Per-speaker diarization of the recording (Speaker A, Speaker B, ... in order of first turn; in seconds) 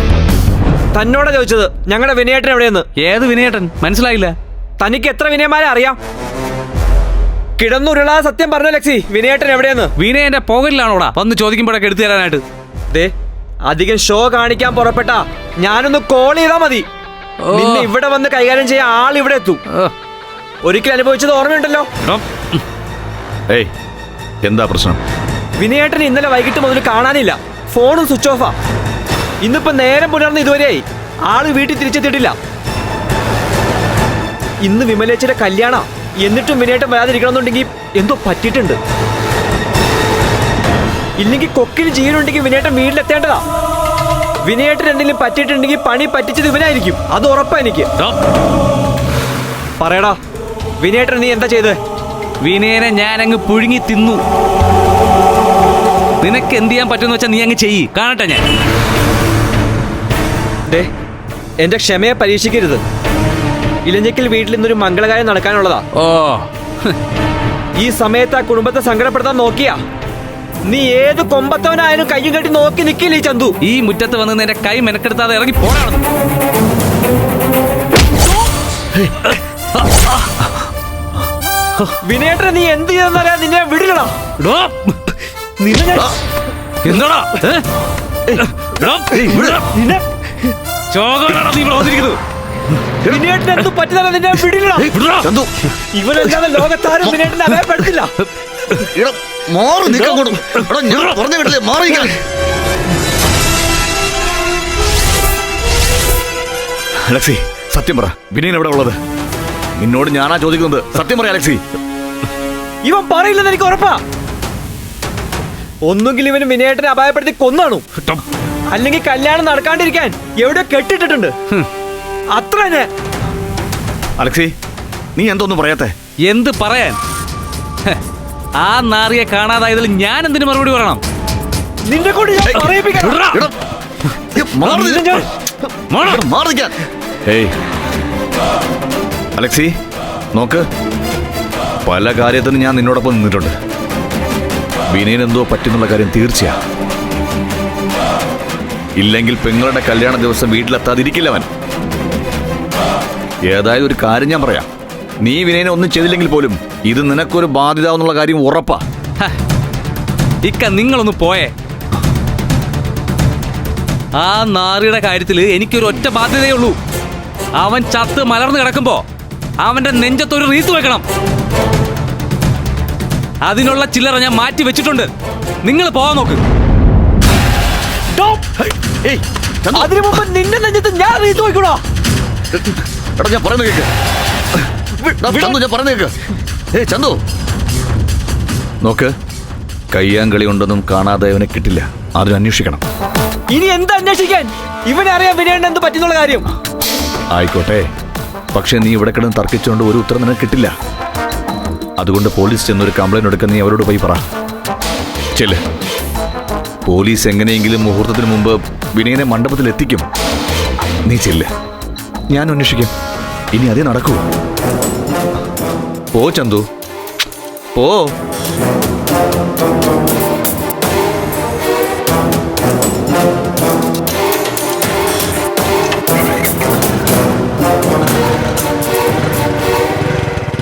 Speaker A: 0.9-2.9, 4.8-6.0, 7.6-9.9, 13.7-16.9, 17.5-19.6, 20.6-21.9, 25.6-28.5, 29.4-32.4, 34.6-38.8, 41.2-43.4, 44.4-47.9, 49.8-50.2, 50.8-51.8, 61.6-62.8, 63.8-65.8, 67.8-69.8, 70.7-73.5, 82.0-84.1, 85.6-86.2, 89.7-90.0, 93.0-94.9, 95.9-98.1, 112.8-114.0, 115.9-117.8, 118.7-121.3, 122.3-122.9, 131.8-133.2, 134.6-135.3, 178.1-178.5, 179.7-181.8, 185.0-185.6, 193.5-196.5
Speaker B: 3.0-4.3, 10.0-12.4, 17.5-17.9, 22.0-22.6, 52.4-54.2, 56.2-58.5, 66.0-66.9, 73.6-76.0, 84.4-85.0, 86.8-87.6, 88.4-89.7, 90.9-92.2, 94.9-95.3, 99.9-101.2, 126.2-127.0, 128.6-131.0, 132.8-133.5, 135.9-136.2, 160.4-161.5, 164.1-166.8, 167.6-169.0, 169.6-171.0, 173.4-175.1, 175.6-176.4
Speaker C: 24.4-25.0, 89.0-89.6, 95.2-95.7, 98.7-102.2, 107.0-108.9, 109.8-111.6, 124.2-124.5, 125.1-125.9, 132.4-133.6, 134.3-135.2, 136.0-137.5, 139.3-139.7, 140.3-140.7, 141.8-143.5, 144.9-146.6, 149.0-151.5, 153.4-154.7, 155.2-158.8, 178.8-180.2, 182.5-183.9, 185.0-186.1, 186.7-187.2, 188.8-189.1, 189.9-192.8, 197.3-197.8, 198.5-200.7, 202.0-204.2, 205.3-205.6, 206.8-210.0, 211.0-211.5, 212.3-212.9, 213.5-214.2, 216.1-216.6, 217.7-218.1